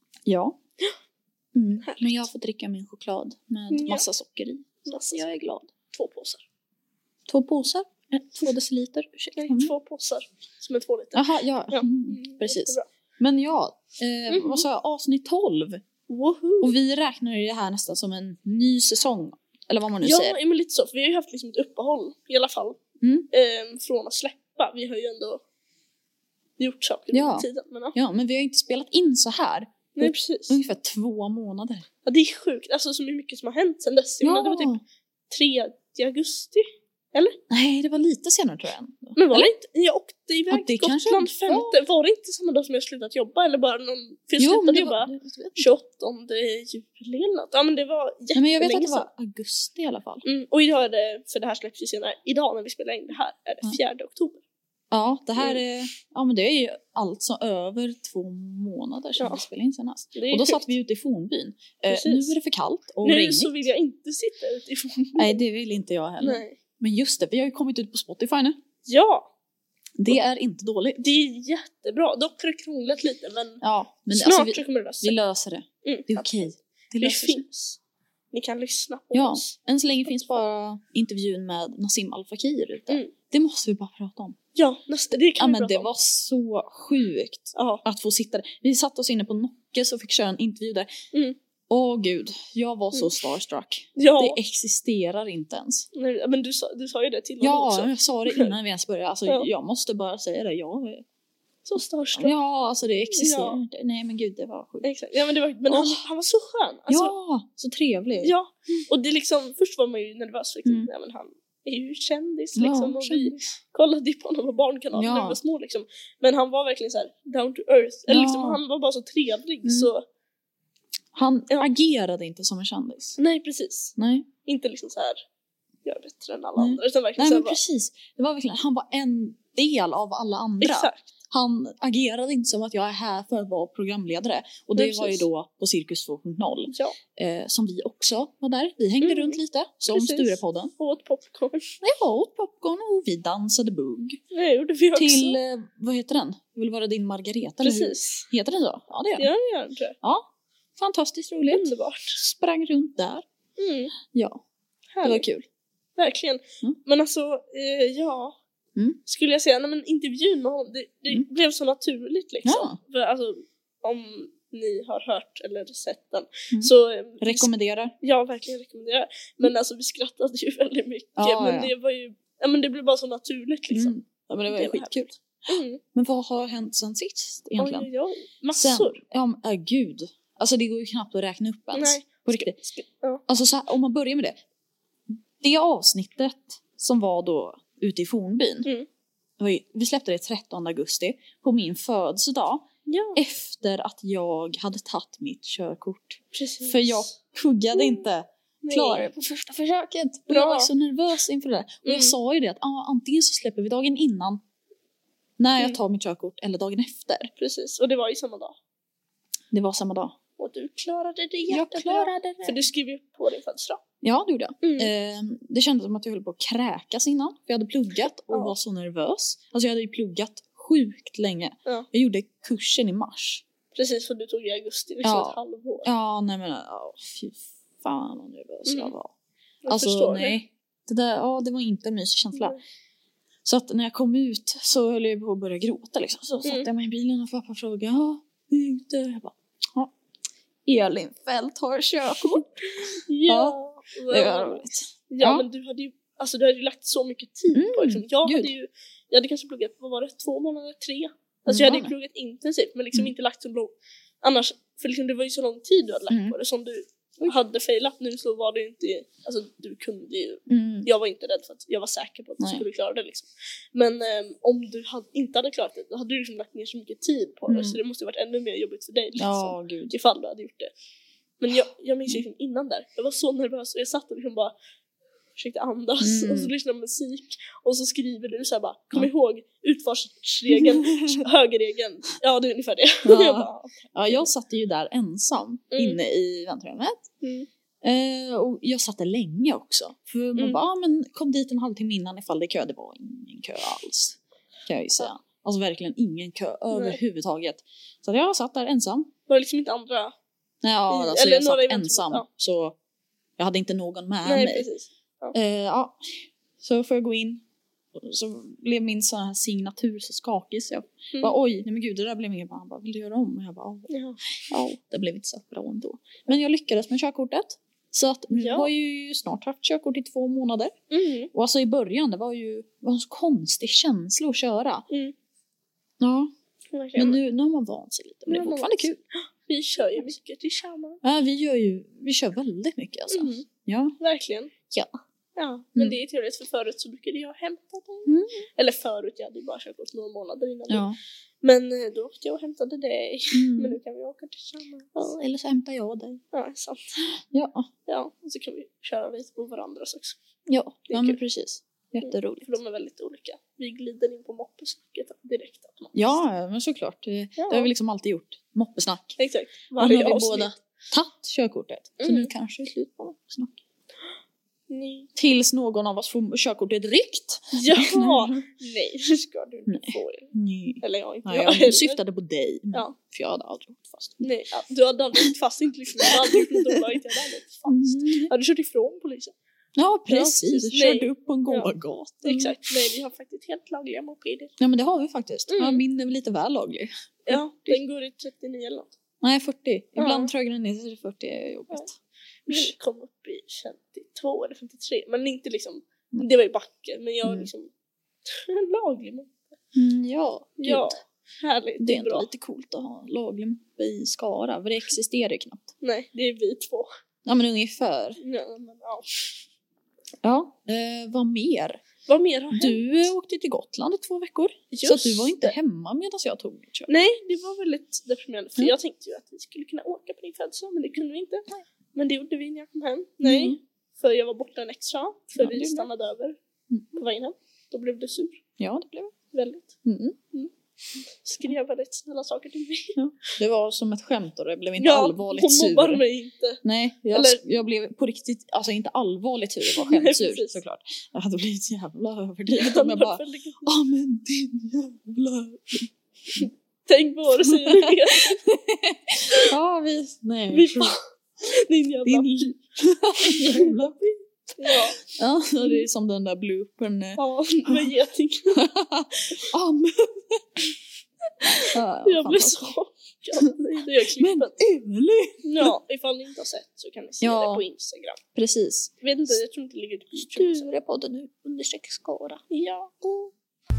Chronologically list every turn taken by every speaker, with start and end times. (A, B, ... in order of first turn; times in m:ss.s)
0:00.2-0:00.6 A
0:01.5-0:05.7 A
0:01.8-0:02.2 B
0:03.7-0:04.0 B
0:04.8-0:05.3 B
0:05.9-0:06.4 B
0:07.3-0:09.7 A
0:09.4-0:12.8 B
0:11.1-0:15.8 A
0:14.3-0:14.6 B
0:16.1-0:16.7 B
0:16.6-0:20.4 A
0:20.0-0:22.8 B
0:23.0-0:23.3 A
0:23.3-0:25.4 B
0:26.6-0:28.0 B
0:27.1-0:31.8 A
0:29.9-0:30.6 B
0:32.0-0:34.8 B
0:34.2-0:34.8 A
0:35.3-0:37.4 B
0:37.5-0:39.5 A
0:39.2-0:49.1 B
0:40.5-0:41.7 A
0:44.4-0:45.7 A
0:48.3-0:50.2 A
0:50.2-0:54.4 B
0:54.9-1:03.6 A
0:59.2-0:59.4 B
1:00.1-1:00.7 B
1:01.9-1:02.4 B
1:03.0-1:05.4 B
1:05.2-1:08.6 A
1:06.2-1:06.6 B
1:08.8-1:09.3 B
1:10.0-1:11.0 A
1:11.0-1:15.2 B
1:13.6-1:17.4 A
1:15.8-1:16.5 B
1:17.0-1:17.8 B
1:18.3-1:20.4 B
1:19.1-1:24.4 A
1:24.6-1:25.9 B
1:25.4-1:30.9 A
1:27.5-1:27.8 B
1:31.7-1:35.9 A
1:34.0-1:34.4 B
1:35.9-1:38.5 B
1:37.4-1:41.0 A
1:41.6-1:42.3 B
1:42.2-1:44.8 A
1:43.1-1:43.6 B
1:44.8-1:47.1 B
1:45.7-1:46.0 A
1:46.9-1:48.3 A
1:48.2-2:00.0 B
1:52.6-1:53.4 A
1:54.9-1:55.4 A
1:58.1-1:58.6 A
1:59.6-1:59.9 A
2:01.1-2:03.2 A
2:03.2-2:05.2 B
2:04.0-2:04.3 A
2:05.8-2:07.6 B
2:06.6-2:20.7 A
2:10.6-2:11.1 B
2:14.8-2:15.2 B
2:16.7-2:17.0 B
2:19.0-2:21.7 B
2:21.8-2:24.2 A
2:24.3-2:25.4 B
2:25.0-2:29.3 A
2:27.6-2:28.3 B
2:29.2-2:30.0 B
2:30.0-2:33.2 A
2:31.5-2:32.2 B
2:33.6-2:33.9 B
2:34.1-2:34.4 A
2:34.9-2:35.2 B
2:35.0-2:35.4 A
2:36.0-2:38.4 B
2:39.0-2:55.8 B
2:42.4-2:42.8 A
2:46.5-2:47.9 A
2:51.2-2:51.7 A
2:53.7-2:55.2 A
2:55.9-2:57.9 A
2:57.6-2:58.9 B
2:58.5-3:02.6 A
3:01.7-3:03.2 B
3:03.3-3:04.4 A
3:05.4-3:08.7 A
3:09.4-3:24.4 A
3:12.9-3:13.2 B
3:16.3-3:17.1 B
3:17.7-3:18.0 B
3:18.6-3:19.2 B
3:20.3-3:20.7 B
3:21.8-3:22.1 B
3:25.4-3:27.3 A
3:27.4-3:28.5 B
3:29.5-3:30.1 A
3:30.4-3:33.8 B
3:31.5-3:32.6 A
3:34.0-3:43.4 A
3:34.6-3:34.9 B
3:43.7-3:45.9 B
3:45.0-3:49.1 A
3:48.6-3:48.9 B
3:49.6-3:50.4 B
3:49.7-3:52.6 A
3:52.3-3:52.6 B
3:53.4-3:59.9 A
4:00.6-4:05.5 A
4:02.2-4:30.7 B
4:07.5-4:08.5 A
4:11.5-4:11.9 A
4:16.1-4:16.4 A
4:20.5-4:20.9 A
4:22.4-4:22.6 A
4:27.5-4:27.8 A
4:29.2-4:29.9 A
4:31.4-4:34.5 B
4:35.4-4:44.3 B
4:36.0-4:36.5 A
4:40.5-4:41.2 A
4:43.0-4:47.0 A
4:45.7-4:46.0 B
4:47.2-4:47.5 B
4:47.8-4:59.1 A
4:50.4-4:50.6 B
4:56.7-4:57.0 B
4:59.3-5:00.1 B
5:00.6-5:02.8 A
5:00.9-5:02.3 B
5:03.4-5:04.7 A
5:04.2-5:05.3 B
5:05.3-5:07.4 A
5:07.9-5:13.9 A
5:13.9-5:14.2 B
5:14.5-5:20.8 A
5:18.3-5:18.7 B
5:20.9-5:21.3 B
5:21.3-5:24.8 A
5:26.0-5:26.3 A
5:26.7-5:27.2 B
5:27.0-5:29.0 A
5:28.3-5:31.0 B
5:31.0-5:33.9 A
5:33.1-5:33.5 B
5:34.0-5:34.5 B
5:35.4-5:40.8 B
5:38.1-5:38.4 A
5:40.7-5:41.0 A
5:41.4-5:45.0 B
5:43.3-5:43.8 A
5:44.9-5:46.2 A
5:46.3-5:46.9 B
5:47.2-5:47.7 A
5:47.9-5:50.2 B
5:50.5-5:52.5 A
5:50.9-5:51.2 B
5:52.0-5:56.2 B
5:55.9-5:59.2 A
5:57.4-5:57.7 B
5:59.2-6:00.5 B
5:59.8-6:03.6 A
6:02.0-6:02.3 B
6:04.7-6:05.1 B
6:05.2-6:08.4 A
6:07.5-6:12.0 B
6:09.7-6:14.3 A
6:14.2-6:19.3 B
6:16.0-6:17.0 A
6:17.6-6:18.3 A
6:19.8-6:22.6 A
6:20.1-6:21.7 B
6:22.2-6:24.5 B
6:24.6-6:27.8 A
6:25.5-6:25.8 B
6:27.2-6:28.9 B
6:29.2-6:31.9 A
6:30.0-6:30.3 B
6:32.5-6:37.7 B
6:32.5-6:32.7 A
6:37.2-6:37.5 A
6:38.3-6:39.5 B
6:39.7-6:41.0 A
6:40.6-6:42.3 B
6:41.8-6:45.7 A
6:45.8-6:46.9 B
6:47.2-6:48.2 A
6:48.2-6:49.3 B
6:50.2-6:51.8 A
6:52.0-6:53.1 B
6:52.5-6:56.9 A
6:54.7-6:55.5 B
6:56.9-7:06.4 B
7:03.2-7:03.6 A
7:05.4-7:05.9 A
7:06.7-7:07.0 A
7:06.9-7:08.4 B
7:08.6-7:09.1 A
7:09.3-7:09.7 B
7:09.8-7:10.2 A
7:11.2-7:13.0 B
7:13.0-7:16.0 A
7:14.8-7:16.6 B
7:16.6-7:26.4 A
7:17.1-7:17.4 B
7:19.7-7:20.6 B
7:22.5-7:23.7 B
7:26.4-7:28.4 B
7:27.4-7:31.0 A
7:30.5-7:32.6 B
7:32.0-7:34.1 A
7:33.1-7:33.8 B
7:34.6-7:35.0 B
7:34.7-7:37.9 A
7:35.6-7:35.8 B
7:37.2-7:38.6 B
7:38.5-7:40.7 A
7:41.4-7:44.5 B
7:41.4-7:42.6 A
7:44.0-7:45.7 A
7:45.4-7:48.2 B
7:47.2-7:47.6 A
7:48.3-7:48.9 A
7:49.0-7:50.7 B
7:50.3-7:52.4 A
7:52.5-7:53.3 B